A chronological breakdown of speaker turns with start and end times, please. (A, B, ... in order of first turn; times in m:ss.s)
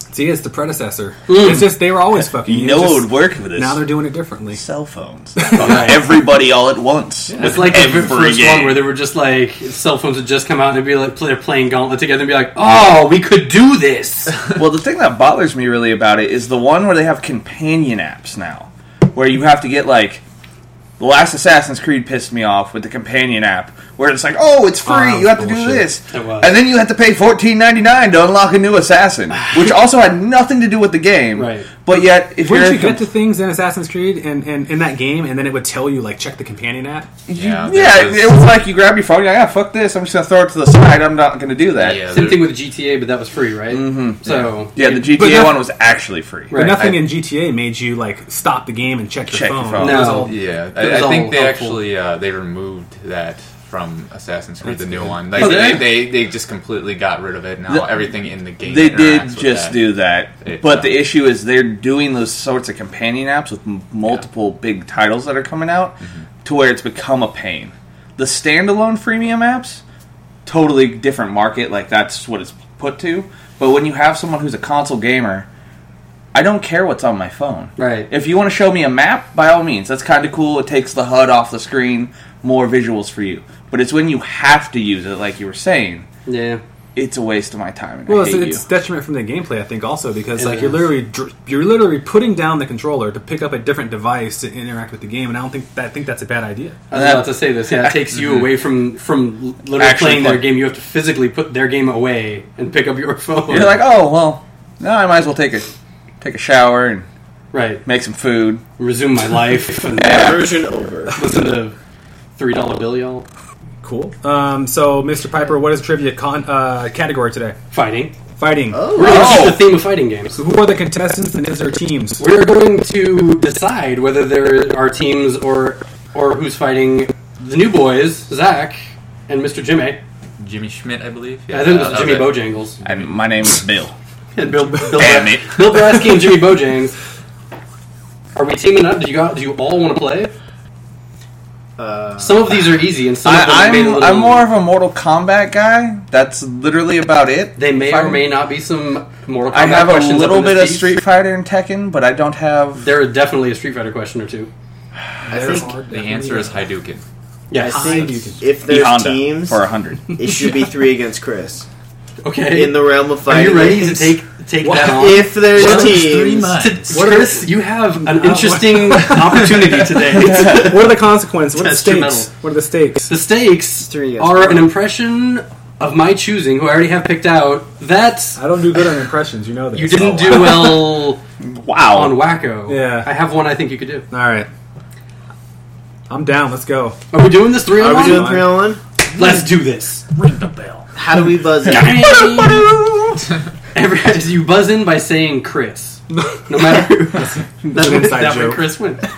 0:00.1-0:04.6 A
0:01.3-0:01.7 B
0:02.4-0:03.8 C
0:04.5-0:08.8 C
0:05.4-0:06.0 A
0:05.6-0:06.0 B
0:07.4-0:14.4 B
0:14.6-0:20.2 C
0:21.0-0:33.0 C
0:24.8-0:25.9 A
0:26.1-0:26.6 B
0:31.3-0:31.7 B
0:32.4-0:37.1 A
0:37.3-0:42.1 C
0:37.3-0:38.5 D
0:41.7-0:42.5 D
0:42.1-0:45.1 B
0:43.7-0:46.9 C
0:45.0-0:45.6 A
0:46.5-0:46.8 B
0:46.5-0:50.3 A
0:49.3-0:50.3 C
0:49.8-0:51.8 B
0:50.0-1:01.0 D
0:55.4-0:55.6 C
0:55.4-0:55.9 B
0:57.7-0:58.0 C
0:58.6-1:09.8 C
1:10.4-1:15.5 C
1:16.3-1:26.0 C
1:17.8-1:18.1 B
1:26.2-1:26.6 B
1:26.9-1:28.6 C
1:28.0-1:36.8 A
1:30.4-1:30.9 B
1:36.9-1:38.0 C
1:36.9-1:43.8 B
1:39.7-1:40.5 C
1:43.5-1:45.7 C
1:46.2-1:47.0 C
1:47.5-1:47.8 B
1:47.8-1:48.6 C
1:48.8-1:50.3 B
1:50.0-1:50.5 C
1:50.0-1:51.1 E
1:51.1-1:51.7 B
1:52.4-1:53.2 B
1:53.8-1:57.6 A
1:57.7-1:58.1 B
1:58.4-1:58.9 A
1:58.7-1:59.5 E
1:58.9-2:00.4 B
1:59.0-1:59.7 C
2:00.3-2:02.2 A
2:02.2-2:10.0 B
2:10.4-2:13.1 D
2:11.5-2:12.8 B
2:12.8-2:13.9 C
2:14.3-2:17.0 B
2:14.9-2:15.6 C
2:18.4-2:20.3 B
2:21.8-2:22.5 E
2:22.2-2:24.5 B
2:23.2-2:28.2 C
2:27.6-2:30.9 B
2:29.5-2:32.9 C
2:32.8-2:34.5 B
2:35.2-2:36.7 A
2:35.6-2:37.0 D
2:37.5-2:38.0 B
2:37.6-2:41.6 E
2:37.6-2:38.5 A
2:38.6-2:40.2 C
2:42.2-2:50.9 B
2:42.5-2:44.1 E
2:44.6-2:45.7 A
2:44.8-2:46.6 E
2:45.5-2:47.0 D
2:46.9-2:49.6 A
2:50.2-2:53.1 A
2:51.5-2:52.3 B
2:53.1-2:58.4 B
2:53.8-2:54.7 E
2:58.4-3:00.7 A
2:59.7-3:01.2 B
3:00.3-3:02.2 C
3:01.9-3:04.1 B
3:02.7-3:03.1 A
3:04.1-3:04.5 A
3:06.1-3:07.0 A
3:07.1-3:08.5 B
3:07.7-3:08.8 E
3:07.8-3:08.6 A
3:09.1-3:10.1 B
3:10.2-3:10.7 A
3:10.9-3:12.1 E
3:11.6-3:12.8 B
3:12.3-3:12.8 A
3:13.7-3:19.1 B
3:17.1-3:18.7 A